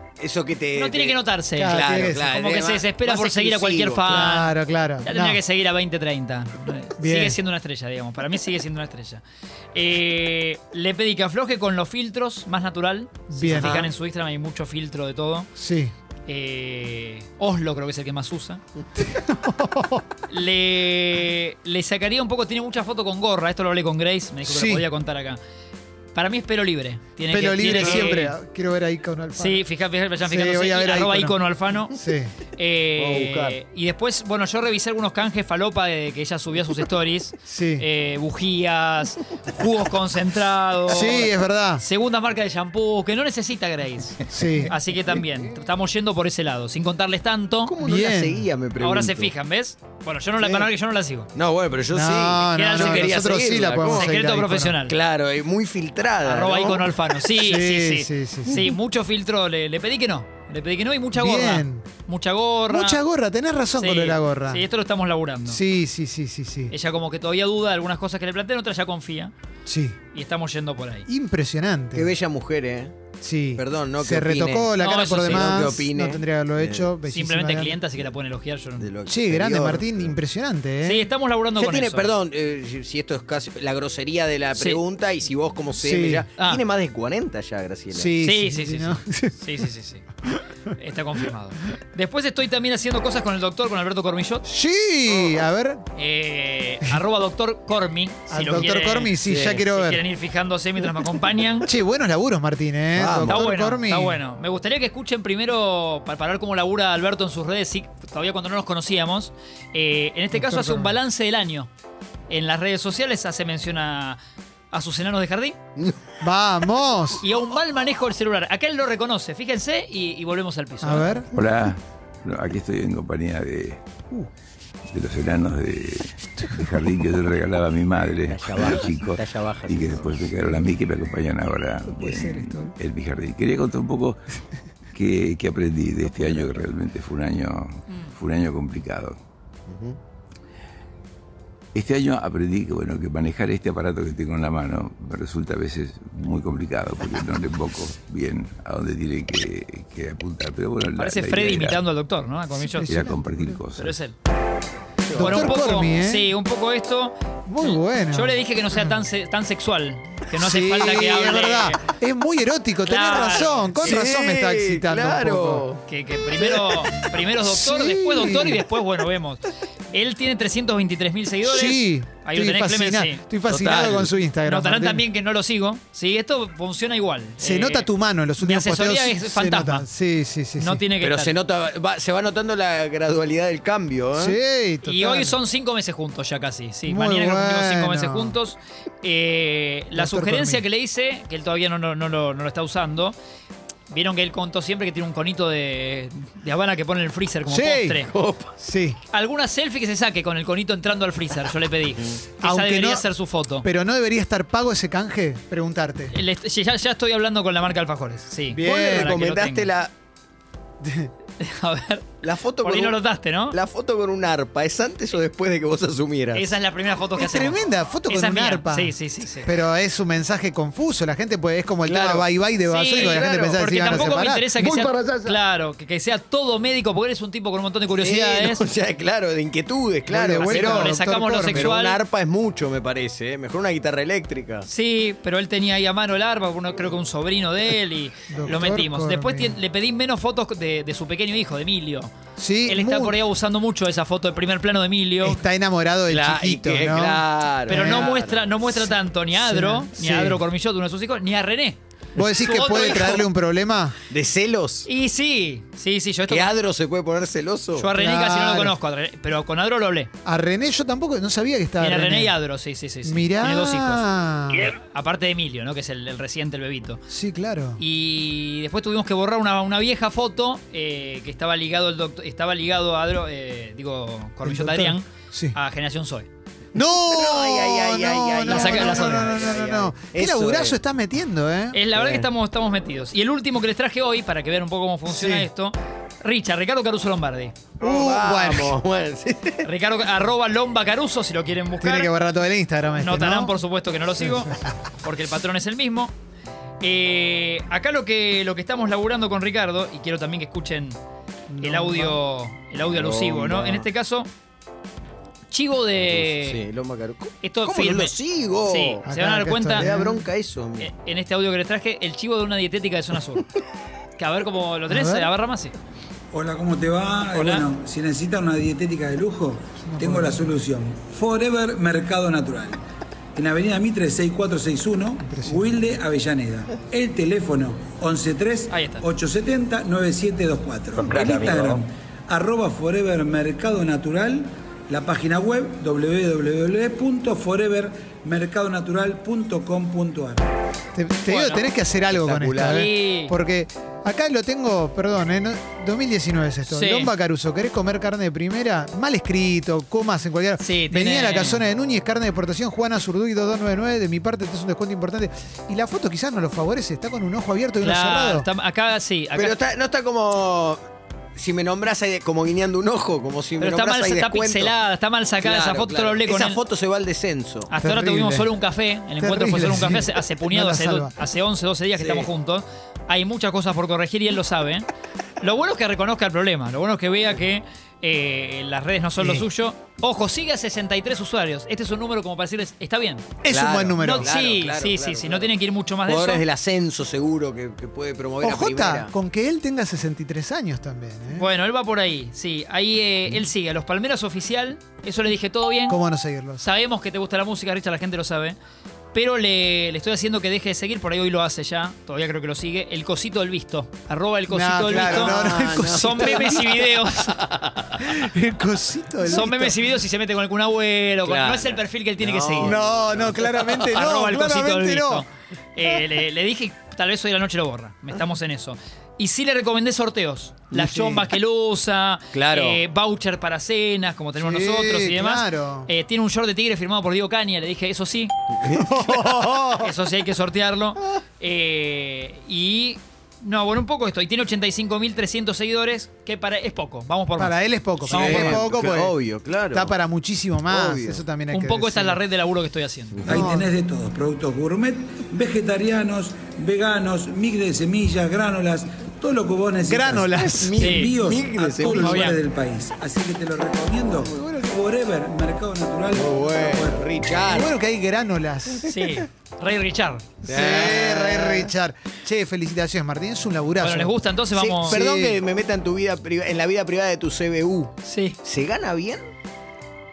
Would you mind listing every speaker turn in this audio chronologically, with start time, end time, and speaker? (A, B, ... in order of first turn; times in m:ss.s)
0:00.2-0:04.2 A
0:00.7-0:09.2 B
0:01.6-0:02.3 C
0:04.1-0:05.4 C
0:07.0-0:07.4 C
0:09.7-0:15.5 B
0:13.3-0:13.9 C
0:13.5-0:13.9 A
0:15.6-0:15.9 C
0:16.3-0:18.6 B
0:19.0-0:20.0 C
0:20.3-0:25.4 B
0:24.4-0:24.8 C
0:26.1-0:28.3 B
0:27.3-0:29.6 C
0:27.7-0:28.1 A
0:29.4-0:31.9 B
0:30.2-0:31.4 C
0:31.9-0:32.3 C
0:32.6-0:47.7 B
0:33.0-0:33.6 A
0:37.5-0:37.8 C
0:40.9-0:41.8 C
0:44.3-0:44.8 C
0:47.7-0:49.3 A
0:47.8-0:48.5 C
0:48.8-0:51.3 B
0:50.4-0:50.7 A
0:51.4-0:54.1 A
0:51.9-0:54.8 C
0:52.5-0:55.0 B
0:54.8-0:56.9 A
0:56.2-1:03.0 B
0:57.4-0:58.6 C
1:01.2-1:01.9 C
1:02.7-1:04.6 C
1:03.8-1:05.6 B
1:05.5-1:06.7 C
1:06.7-1:09.3 B
1:09.7-1:10.0 C
1:10.1-1:11.1 B
1:11.1-1:12.1 C
1:11.9-1:12.9 A
1:13.2-1:17.8 C
1:13.6-1:16.9 A
1:14.8-1:15.8 B
1:17.1-1:18.9 B
1:18.8-1:20.2 A
1:19.1-1:21.1 C
1:20.8-1:22.1 B
1:21.6-1:28.2 A
1:24.6-1:24.8 B
1:25.8-1:26.3 C
1:26.4-1:26.6 B
1:27.9-1:29.4 C
1:28.2-1:30.0 B
1:30.8-1:34.5 B
1:34.5-1:35.8 C
1:36.0-1:41.7 B
1:38.3-1:40.0 C
1:39.2-1:39.6 A
1:41.7-1:44.2 C
1:43.0-1:43.5 A
1:43.3-1:51.7 B
1:50.3-1:51.0 C
1:52.3-1:54.2 B
1:54.7-1:55.6 B
1:56.2-1:57.2 C
1:57.2-2:01.2 B
2:00.8-2:01.3 C
2:01.3-2:03.8 D
2:04.9-2:14.2 D
2:06.4-2:06.8 C
2:08.3-2:10.5 A
2:11.9-2:12.8 C
2:14.9-2:19.2 D
2:16.1-2:16.6 A
2:17.9-2:18.2 B
2:19.7-2:20.0 A
2:21.7-2:31.8 D
2:31.0-2:32.9 B
2:32.6-2:33.6 C
2:32.7-2:34.0 D
2:33.8-2:34.1 B
2:35.1-2:35.4 A
2:35.1-2:36.3 C
2:35.2-2:41.8 B
2:37.5-2:39.0 C
2:40.3-2:45.7 C
2:42.8-2:44.0 B
2:43.8-2:45.8 A
2:45.9-2:53.2 B
2:47.4-2:48.6 C
2:51.4-2:55.0 C
2:53.5-2:54.1 A
2:54.4-2:59.9 B
2:57.4-3:00.8 C
3:00.6-3:01.4 B
3:01.0-3:04.4 A
3:04.2-3:05.4 C
3:04.9-3:13.2 B
3:06.9-3:08.4 C
3:10.0-3:10.6 C
3:13.9-3:18.1 B
3:17.5-3:18.0 C
3:18.0-3:18.5 A
3:18.6-3:19.0 C
3:19.1-3:23.7 B
3:22.4-3:23.1 C
3:23.6-3:26.2 C
3:26.1-3:29.7 B
3:28.5-3:29.2 C
3:28.6-3:29.9 A
3:30.8-3:31.1 C
3:31.4-3:32.1 B
3:32.2-3:33.0 A
3:32.6-3:33.6 B
3:33.5-3:36.5 A
3:36.3-3:39.5 B
3:37.2-3:44.6 C
3:41.8-3:42.3 A
3:42.7-3:48.6 B
3:42.9-3:45.1 A
3:47.9-3:54.7 A
3:50.1-3:51.7 C
3:50.4-3:52.0 B
3:54.7-4:02.1 B
3:58.3-3:59.6 C
4:02.4-4:03.2 C
4:02.7-4:05.4 B
4:05.2-4:10.4 C
4:06.1-4:08.4 A
4:07.7-4:13.2 B
4:12.2-4:14.0 C
4:14.1-4:14.9 A
4:14.9-4:16.5 B
4:16.3-4:17.9 A
4:17.8-4:20.1 B
4:18.0-4:18.8 C
4:20.2-4:22.3 C
4:21.8-4:27.0 B
4:23.0-4:24.8 C
4:27.1-4:27.8 C
4:27.8-4:36.3 B
4:34.4-4:35.6 C
4:36.8-4:41.8 C
4:37.0-4:40.8 A
4:38.4-4:39.4 B
4:41.7-4:47.6 B
4:41.9-4:42.3 A
4:45.1-4:45.5 C
4:47.8-4:48.8 C
4:47.8-4:49.7 A
4:49.6-4:52.1 B
4:51.8-4:53.6 C
4:53.0-4:56.1 B
4:54.2-4:54.6 C
4:56.8-5:01.0 B
5:01.5-5:02.2 C
5:01.6-5:04.3 B
5:02.9-5:03.9 A
5:05.5-5:06.6 B
5:06.0-5:09.0 A
5:07.4-5:09.9 B
5:09.1-5:10.3 C
5:09.8-5:10.9 A
5:10.8-5:13.4 B
5:14.2-5:15.8 B
5:14.9-5:15.3 C
5:16.3-5:22.8 E
5:17.3-5:17.7 B
5:19.8-5:20.6 C
5:23.4-5:40.5 E
5:25.3-5:25.7 C
5:28.7-5:29.0 B
5:31.2-5:31.6 A
5:41.0-5:58.5 C
5:41.3-5:41.7 B
5:42.1-5:42.8 A
5:42.7-5:43.3 B
5:46.7-5:47.1 B
5:50.6-5:51.6 B
5:57.8-5:59.6 B
5:59.3-6:00.8 A
6:01.4-6:04.8 A
6:03.6-6:06.6 B
6:05.4-6:07.7 A
6:07.7-6:14.9 B
6:07.8-6:08.5 C
6:09.2-6:11.1 C
6:12.0-6:12.3 A
6:15.4-6:23.2 B
6:19.2-6:19.5 C
6:23.4-6:24.3 C
6:23.5-6:29.1 A
6:24.0-6:26.4 B
6:28.4-6:31.5 C
6:31.4-6:36.0 B
6:35.9-6:36.6 C
6:36.6-6:38.6 B
6:39.1-6:47.4 B
6:44.5-6:46.7 C
6:44.9-6:48.0 A
6:48.0-6:49.8 C
6:49.2-6:52.8 B
6:51.2-6:54.0 A
6:52.6-6:55.3 C
6:53.7-7:08.3 B
7:00.8-7:01.3 C
7:02.3-7:02.8 A
7:04.4-7:05.9 C
7:08.6-7:09.4 A
7:08.7-7:09.9 C
7:09.8-7:18.7 B
7:17.4-7:19.2 C
7:18.1-7:19.9 A
7:19.7-7:22.2 C
7:20.7-7:21.2 A
7:21.5-7:23.3 B
7:23.2-7:23.4 A
7:23.2-7:37.5 E
7:23.3-7:23.7 C
7:29.9-7:30.9 C
7:30.4-7:32.1 A
7:30.8-7:31.2 B
7:31.9-7:32.4 B
7:34.2-7:34.8 C
7:36.1-7:37.7 A
7:37.4-7:38.9 C
7:38.9-7:40.2 B
7:40.4-7:44.1 C
7:40.4-7:41.7 A
7:43.8-7:45.0 B
7:44.5-7:47.9 A
7:44.9-7:45.4 C
7:48.0-7:48.4 B
7:48.4-7:49.2 A